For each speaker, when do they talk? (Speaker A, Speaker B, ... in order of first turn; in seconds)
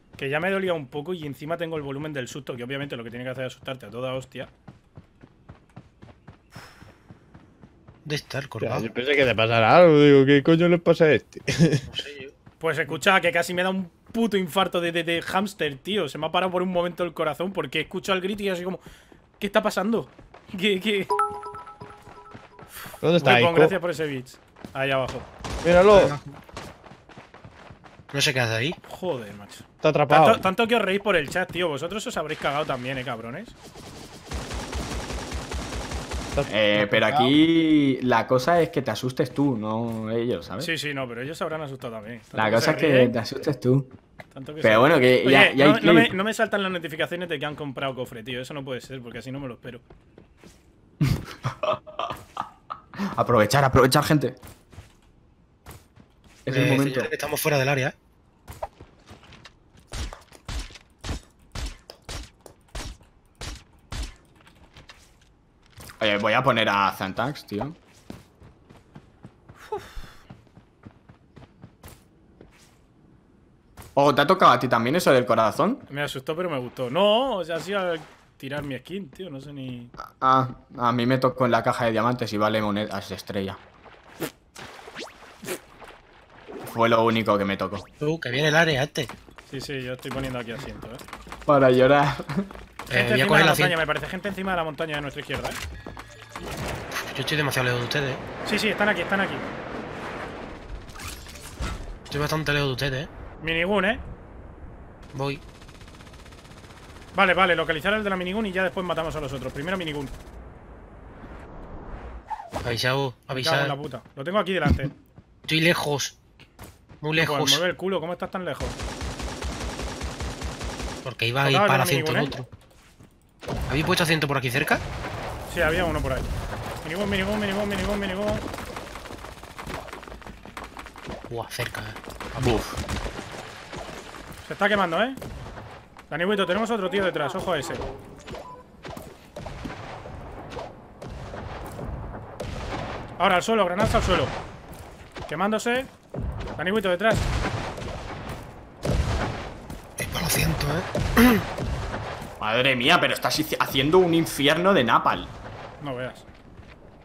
Speaker A: 0.2-4.5, 12.6-18.8, 19.4-21.1, 23.2-25.3, 28.8-33.5, 40.6-43.1, 44.3-49.8, 69.7-69.9, 75.9-79.9, 89.5-91.0, 92.9-95.6, 98.4-99.5, 103.4-104.0, 107.1-110.1, 113.3-114.9, 117.2-118.8, 121.4-122.3, 125.5-126.3, 126.8-128.4, 134.4-135.2, 136.1-137.8, 143.2-144.3, 145.3-145.9, 146.6-147.3, 155.8-156.2
Speaker B: 8.0-8.8, 11.9-12.3, 25.9-26.4, 28.1-28.8, 56.5-57.9, 88.0-89.1, 92.9-93.8, 96.9-98.2, 102.1-103.1, 105.1-105.4, 112.6-113.8, 115.5-116.2, 117.0-117.6, 121.0-122.5, 123.7-124.8, 131.3-132.5, 150.0-151.4
Speaker C: 8.6-11.9, 23.0-23.8, 25.6-26.1, 29.8-30.4, 36.3-37.3
Speaker D: 36.5-40.7, 42.3-43.9, 44.6-46.1, 51.0-52.1, 53.1-54.4, 56.4-57.1, 66.0-67.8, 74.0-75.8, 80.0-83.6, 86.7-87.8, 91.5-92.5, 132.4-132.8, 152.4-155.3